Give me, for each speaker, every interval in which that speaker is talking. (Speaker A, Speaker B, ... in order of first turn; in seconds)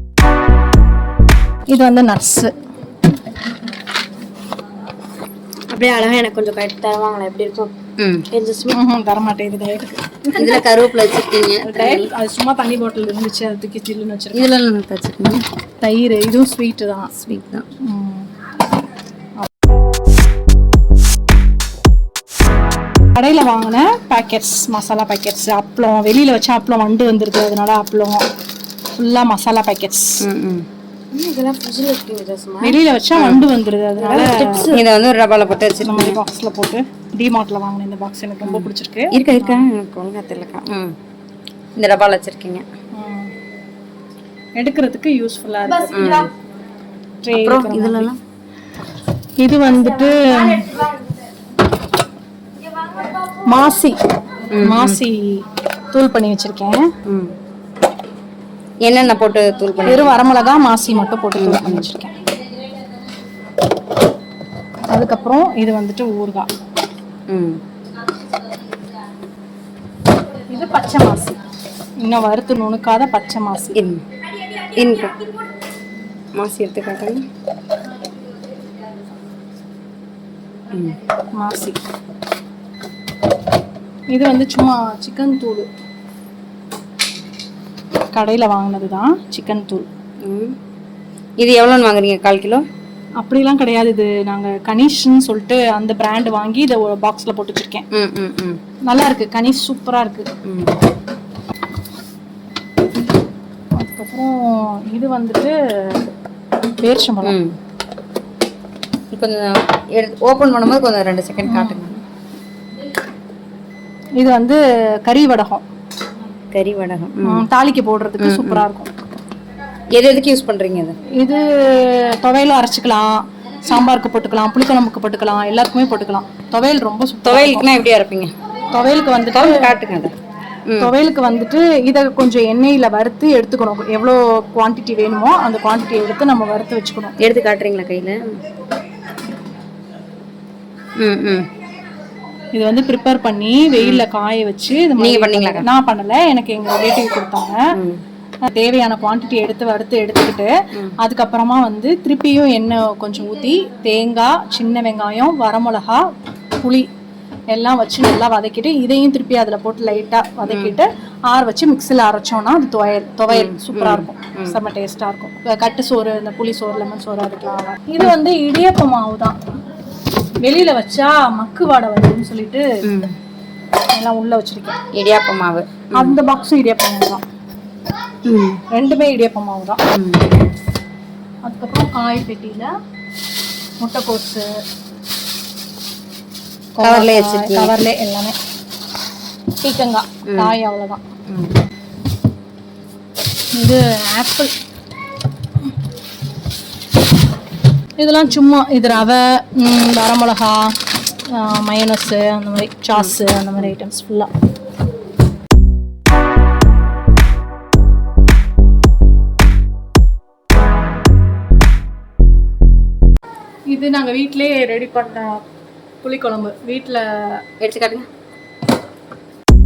Speaker A: 1.7-2.5, 8.7-10.6, 11.6-14.5, 15.8-17.1, 17.8-18.3, 23.1-28.2, 28.9-30.2, 32.6-34.7, 35.8-39.6, 42.9-43.3, 44.5-46.3, 47.2-48.1, 49.4-50.7, 53.5-54.0, 54.6-56.9, 59.8-62.1, 64.9-66.5, 70.5-71.4, 72.0-73.8, 81.3-81.8, 84.1-85.7, 88.1-89.8, 93.2-97.8, 98.9-100.3, 103.8-106.0, 106.8-107.3, 111.5-111.8, 114.2-115.6, 117.2-118.9, 121.1-127.7, 128.7-129.7, 130.8-137.1, 142.5-147.7, 148.5-156.1, 156.6-156.9, 157.5-169.4, 170.4-172.7, 173.9-174.8, 175.9-177.2, 178.7-179.8, 181.4-182.7, 183.8-184.5, 186.8-188.3, 189.6-191.0, 193.5-194.5, 198.0-200.8, 201.3-204.3, 213.7-215.4, 216.0-217.4
Speaker B: 5.7-7.7, 8.3-8.8, 31.1-32.5
Speaker C: 8.0-8.3, 10.3-12.1, 14.3-15.4, 17.2-17.7, 30.2-30.6, 32.1-33.4, 34.0-36.2, 38.4-40.9, 41.7-42.6, 45.9-46.3, 47.4-48.2, 54.5-55.0, 57.1-57.3, 58.8-60.1, 61.4-61.9, 67.3-67.6, 73.7-74.0, 74.6-75.2, 76.3-77.2, 80.7-81.0, 90.2-90.5, 91.4-92.7, 97.9-98.6, 100.5-100.8, 107.2-107.5, 109.1-112.0, 116.5-117.5, 118.2-118.6, 119.9-121.0, 127.2-128.3, 129.3-130.1, 130.7-130.9, 137.2-138.4, 141.0-141.5, 143.8-144.0, 145.0-145.7, 147.7-148.0, 160.5-160.7, 163.3-164.6, 172.8-173.2, 174.9-176.2, 178.2-178.6, 179.9-180.3, 186.8-187.7, 190.3-190.6, 217.6-218.1